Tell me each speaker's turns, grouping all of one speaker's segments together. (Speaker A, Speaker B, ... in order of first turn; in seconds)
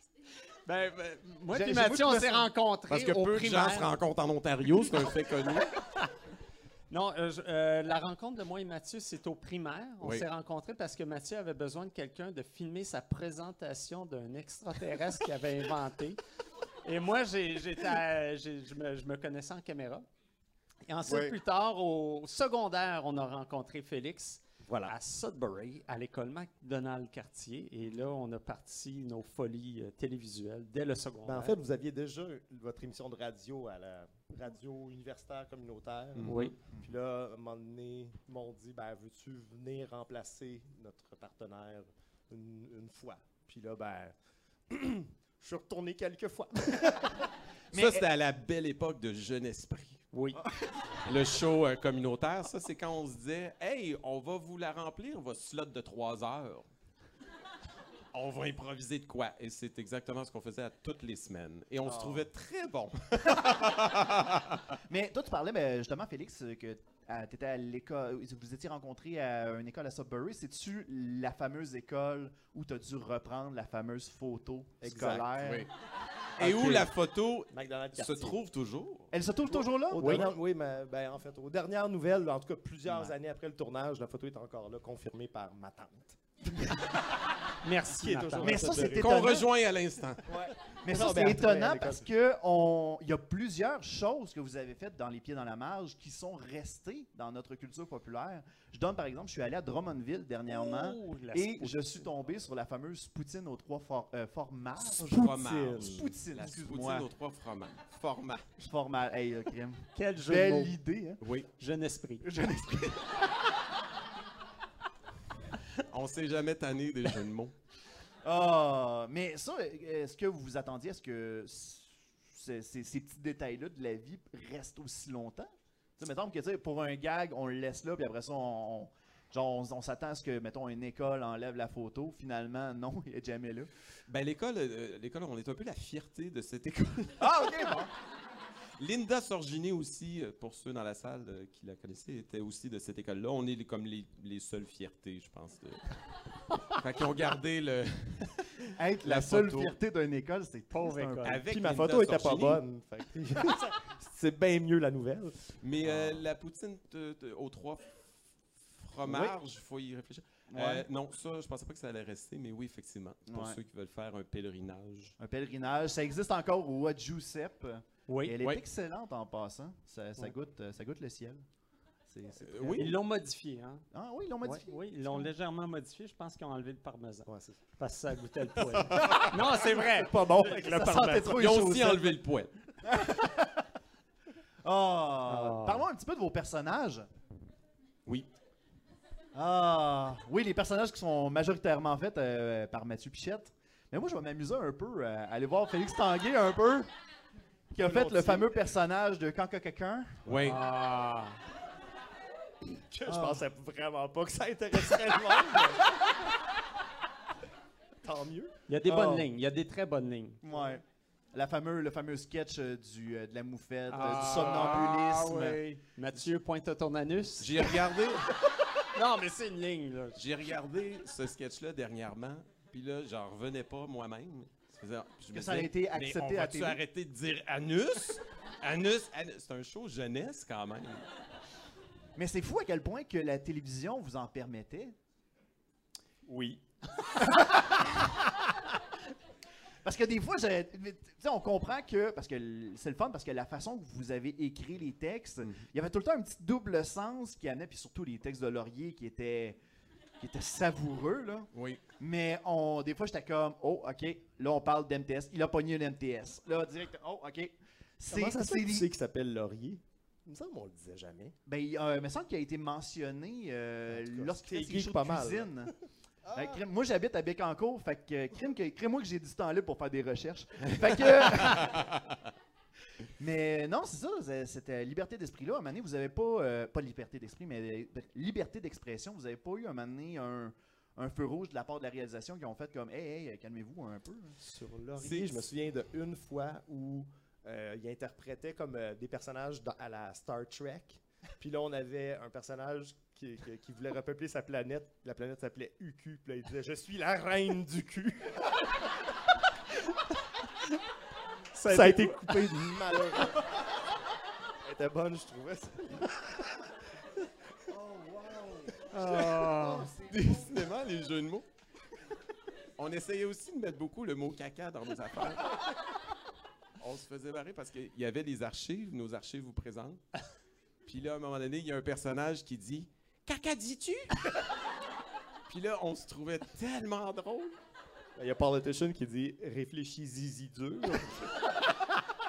Speaker A: 0.7-4.0, 6.9-16.2, 16.8-20.1, 20.8-31.5, 36.2-36.5, 50.1-50.4, 80.0-80.3, 87.6-88.9, 100.5-102.0, 109.9-110.7, 111.6-112.3, 150.7-151.4, 168.1-168.4, 172.7-173.8, 174.4-181.0, 185.2-185.8, 200.4-201.4, 208.7-210.4, 213.9-217.7, 218.9-220.2, 301.5-302.4, 308.9-309.9
Speaker B: 1.5-2.5, 47.7-48.1, 61.8-62.3, 64.9-75.7, 76.4-76.8, 79.1-80.3, 82.8-83.1, 88.4-89.5, 90.8-107.1, 108.6-111.2, 112.2-113.1, 118.2-133.7, 137.2-137.9, 148.8-151.4, 155.8-156.2, 159.1-159.3, 160.5-160.8, 163.3-163.6, 165.2-171.4, 172.1-172.9, 173.9-175.3, 180.3-182.2, 182.9-183.5, 184.6-187.1, 189.3-196.9, 197.7-200.2, 203.1-203.4, 208.8-209.3, 210.4-215.6, 225.3-226.8, 232.2-234.9, 239.8-249.6, 250.2-251.5, 252.0-258.9, 261.4-265.7, 266.3-271.8, 273.2-284.4, 307.7-308.7, 309.3-310.4
Speaker C: 2.9-5.7, 10.0-10.2, 47.7-50.0, 51.0-56.7, 58.1-64.6, 75.4-75.7, 76.4-79.1, 88.9-90.2, 104.8-108.5, 111.2-111.5, 115.9-117.5, 134.1-137.8, 138.8-146.0, 146.7-148.5, 149.0-149.7, 151.2-152.6, 155.6-158.1, 158.7-165.2, 172.4-172.9, 181.3-182.5, 200.2-200.6, 217.4-218.3, 220.2-231.0, 251.5-251.8, 270.7-271.9, 284.9-285.5, 310.1-311.4, 312.8-315.5, 316.8-320.0, 320.9-324.1, 325.5-327.6
Speaker D: 21.1-21.4, 24.6-24.9, 31.2-44.1, 44.7-47.3, 74.8-75.3, 77.5-78.3, 79.5-86.2, 87.9-89.2, 90.3-92.0, 151.4-155.5, 177.2-177.6, 178.8-181.3, 197.8-198.5, 202.9-205.9, 208.0-208.5, 236.3-236.6, 258.1-261.3, 263.9-265.7, 266.3-266.6, 284.4-298.3, 301.7-303.5, 304.6-306.1, 328.2-331.4